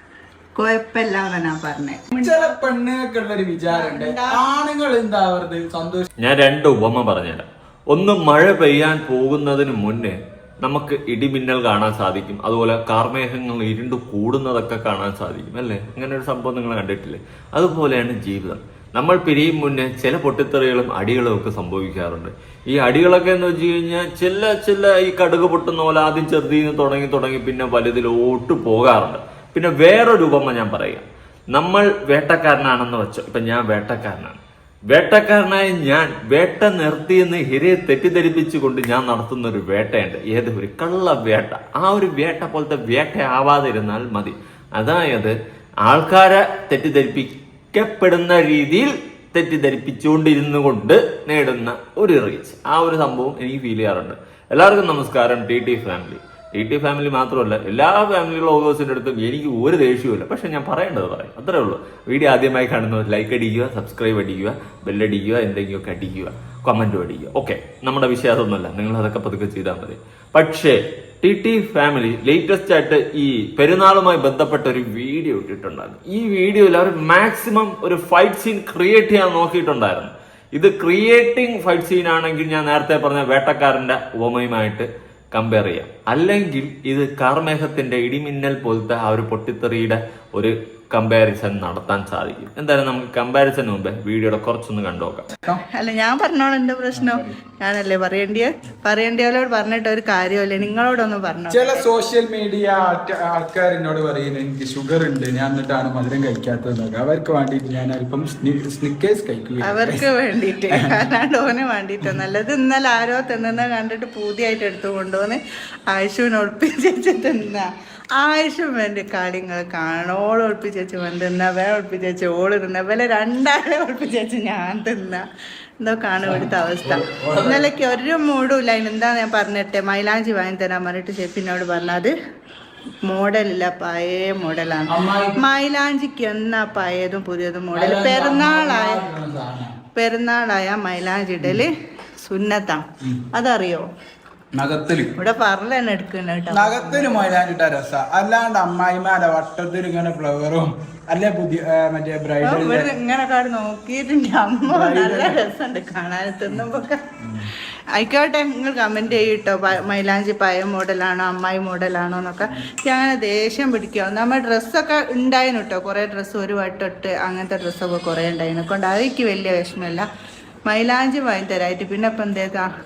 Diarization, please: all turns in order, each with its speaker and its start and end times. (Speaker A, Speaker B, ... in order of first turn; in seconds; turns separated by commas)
Speaker A: 0.5-2.5, Speaker B: 2.2-6.0, Speaker A: 3.7-4.4, Speaker C: 6.2-34.4, Speaker C: 34.9-45.3, Speaker C: 45.8-95.3, Speaker A: 95.7-101.8, Speaker B: 97.0-97.3, Speaker B: 101.5-110.0, Speaker A: 109.6-125.2, Speaker A: 125.8-132.1, Speaker B: 126.2-127.6, Speaker A: 133.0-139.0, Speaker B: 134.9-135.4, Speaker B: 137.7-139.8, Speaker A: 139.9-141.7, Speaker A: 142.2-142.8, Speaker A: 143.3-143.9, Speaker B: 144.5-145.1, Speaker A: 145.2-147.2, Speaker B: 146.5-152.9, Speaker A: 152.4-157.0, Speaker B: 154.7-155.4, Speaker A: 157.9-170.1, Speaker A: 170.7-172.7